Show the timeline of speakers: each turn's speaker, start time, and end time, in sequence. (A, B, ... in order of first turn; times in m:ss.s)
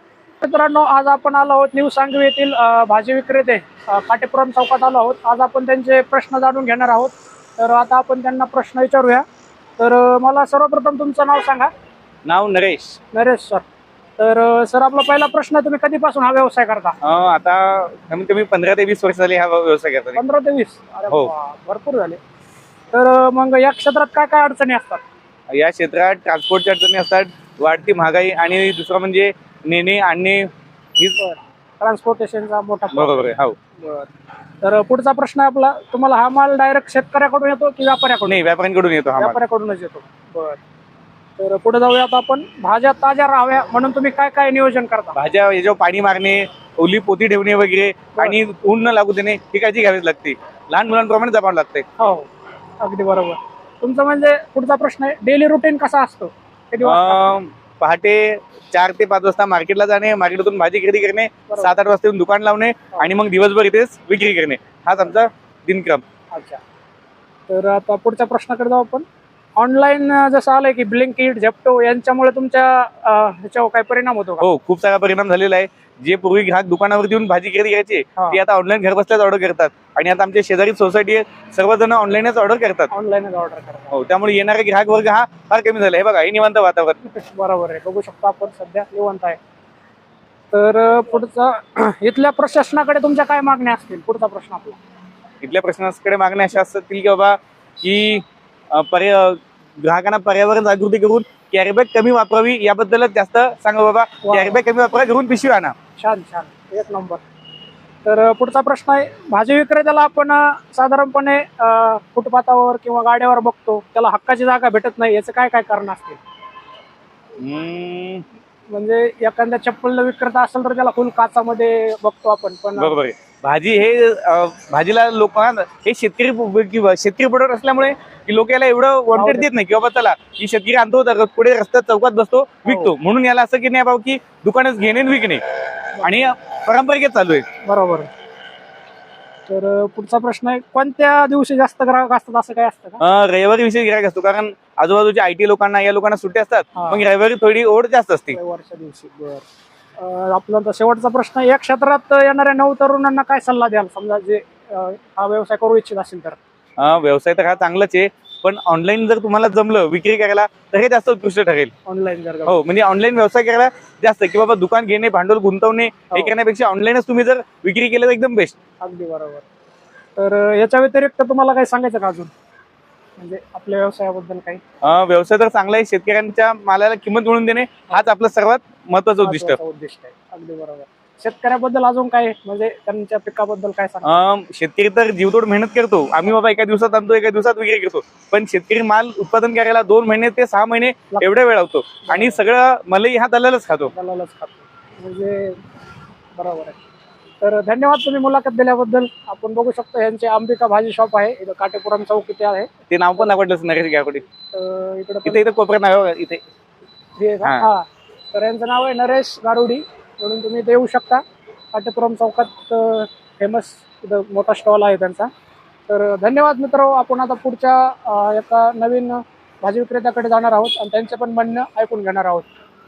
0:00.4-0:09.2 A
0:09.8-0:11.7 A
0:12.2-0:13.0 B
0:13.1-0:13.6 A
0:14.2-0:17.0 A
0:17.0-0:20.2 B
0:20.1-0:22.2 A
0:22.9-0:25.0 A
0:25.5-0:31.2 B
0:31.2-0:34.1 A
0:32.9-0:33.6 B
0:34.6-0:38.4 A
0:38.3-0:39.4 B
0:39.2-0:40.6 A
0:41.4-0:45.2 A
0:45.1-0:51.8 B
0:52.0-0:52.3 A
0:52.8-0:57.3 A
0:56.8-1:06.0 B
1:01.5-1:01.7 A
1:06.3-1:06.6 A
1:07.5-1:09.0 A
1:09.6-1:14.5 A
1:14.4-1:22.9 B
1:22.9-1:24.0 A
1:23.9-1:27.0 B
1:27.0-1:29.4 A
1:30.5-1:34.8 A
1:35.4-1:45.7 B
1:44.2-1:44.6 A
1:46.0-1:47.2 A
1:48.0-1:56.2 A
1:57.4-1:58.2 B
1:58.7-2:03.0 A
2:02.8-2:15.4 B
2:09.1-2:09.5 A
2:12.6-2:12.9 A
2:16.0-2:16.3 A
2:16.0-2:17.4 B
2:17.6-2:18.1 A
2:19.5-2:23.0 A
2:23.0-2:28.4 B
2:26.7-2:27.0 A
2:28.3-2:29.4 A
2:30.0-2:36.4 A
2:36.8-2:41.7 B
2:41.8-2:42.6 A
2:42.5-2:48.6 B
2:48.8-2:49.4 A
2:50.2-2:52.3 A
2:53.2-2:54.6 A
2:54.8-2:59.6 B
2:59.2-3:04.2 A
3:04.0-3:13.9 B
3:11.1-3:11.4 A
3:12.0-3:12.4 A
3:13.9-3:15.6 A
3:16.4-3:16.8 A
3:17.4-3:22.7 A
3:22.9-3:24.2 B
3:24.5-3:25.4 A
3:25.2-3:26.4 B
3:27.2-3:31.2 A
3:27.4-3:27.7 B
3:31.7-3:35.3 A
3:35.9-3:42.5 A